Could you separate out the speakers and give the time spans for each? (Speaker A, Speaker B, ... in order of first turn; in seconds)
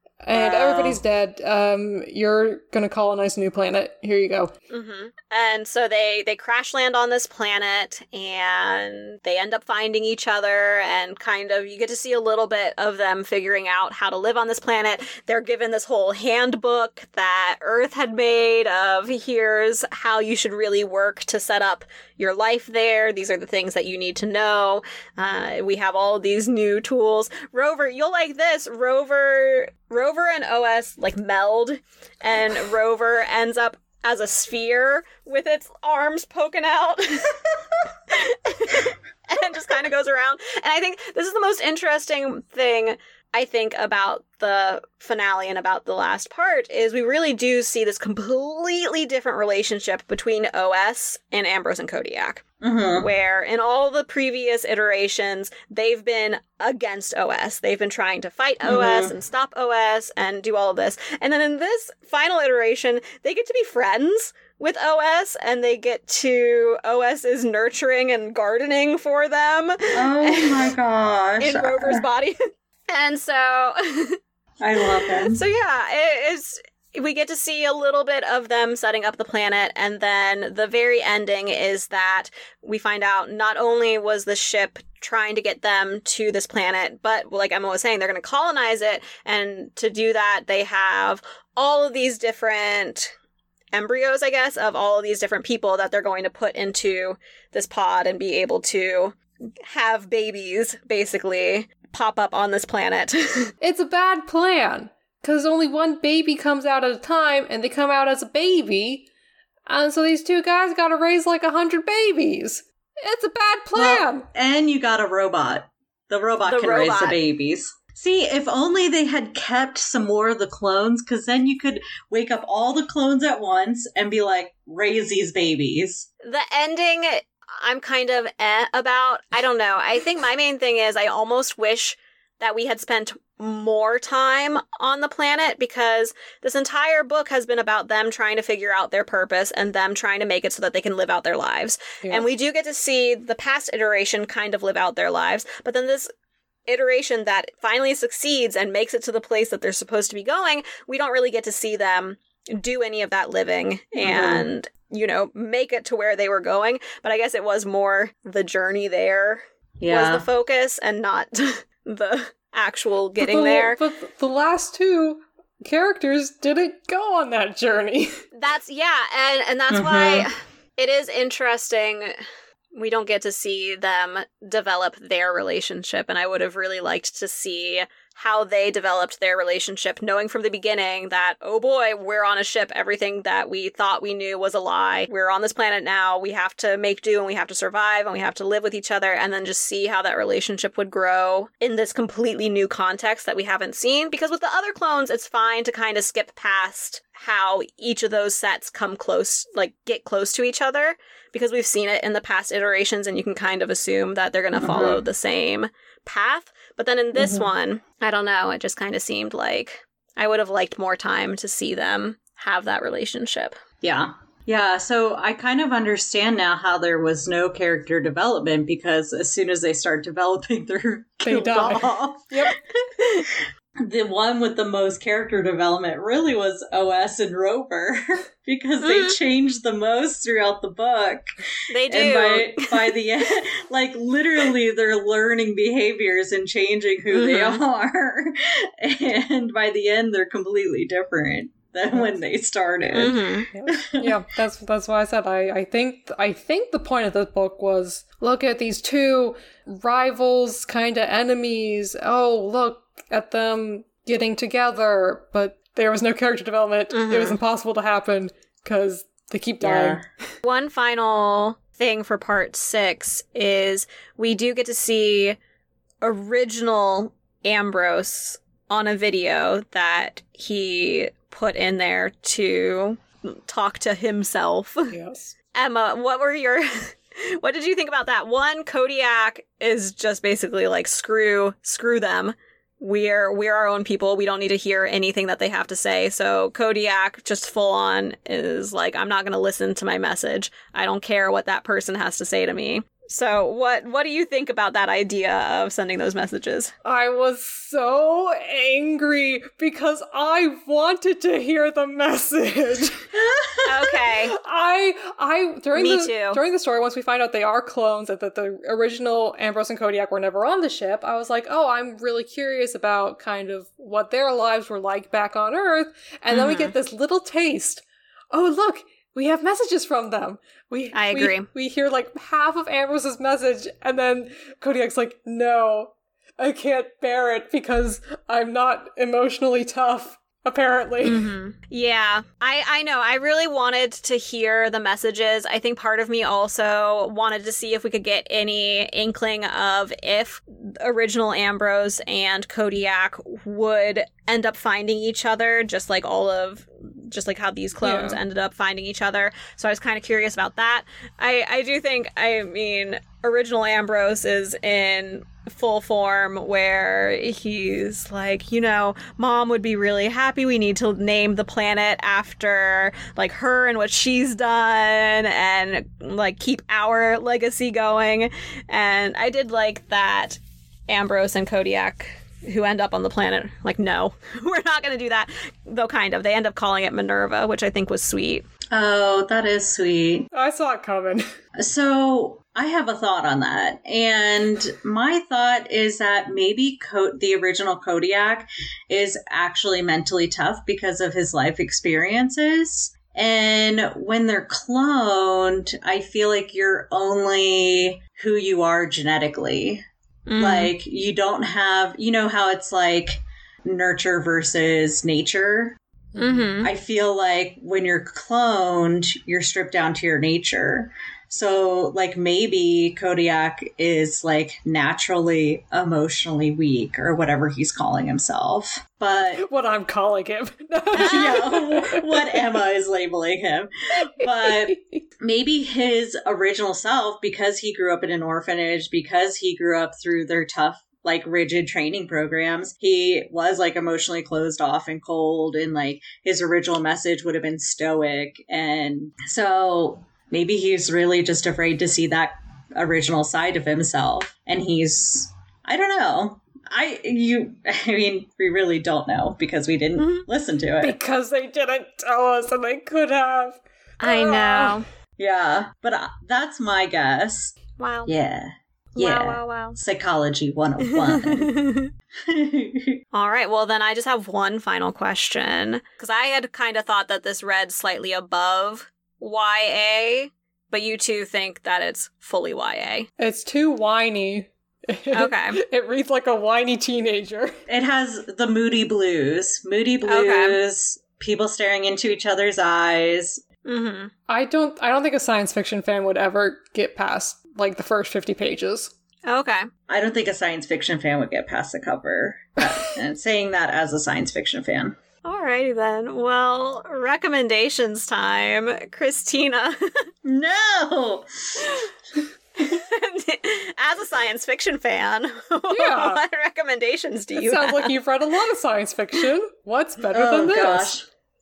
Speaker A: 0.2-4.5, 103.6-109.0, 109.7-114.2, 163.2-168.1, 221.2-222.6, 243.5-260.0, 274.9-275.3, 296.8-303.2, 304.2-331.3, 347.8-348.2, 380.3-381.2, 406.2-406.5, 419.4-422.4, 424.2-425.0, 450.8-454.8, 473.2-477.6, 484.3-488.9, 505.7-506.2, 507.4-510.9
Speaker B: 0.3-1.0, 4.7-37.6, 38.1-52.4, 53.0-70.7, 71.4-72.4, 72.9-74.2, 75.1-93.1, 93.7-103.5, 116.5-117.2, 126.2-146.1, 146.7-163.8, 168.3-172.1, 172.7-213.6, 228.8-229.2, 231.7-232.8, 237.1-237.6, 242.9-243.5, 256.9-257.4, 260.4-265.4, 266.0-274.9, 275.5-296.7, 303.6-304.3, 305.8-306.4, 316.3-316.7, 320.9-321.5, 331.0-378.4, 400.3-400.7, 406.2-406.7, 420.9-421.4, 450.0-450.2, 454.0-454.9, 457.8-458.1, 458.9-459.8, 460.9-461.9, 463.1-473.1, 475.1-475.6, 480.0-480.6, 483.6-484.1, 489.3-489.7, 495.2-500.0, 502.6-508.0
Speaker C: 0.4-0.7, 52.6-53.1, 58.6-59.1, 69.9-72.0, 74.6-75.4, 113.7-126.1, 154.0-154.5, 159.8-160.2, 169.7-170.3, 204.6-205.0, 207.1-207.4, 213.8-231.3, 231.9-244.2, 259.6-260.0, 303.2-303.5, 378.7-380.3, 381.6-399.8, 400.4-405.8, 406.6-419.4, 420.9-451.0, 455.2-461.6, 462.3-463.0, 477.7-483.4, 489.9-495.0, 500.2-501.8, 510.1-511.1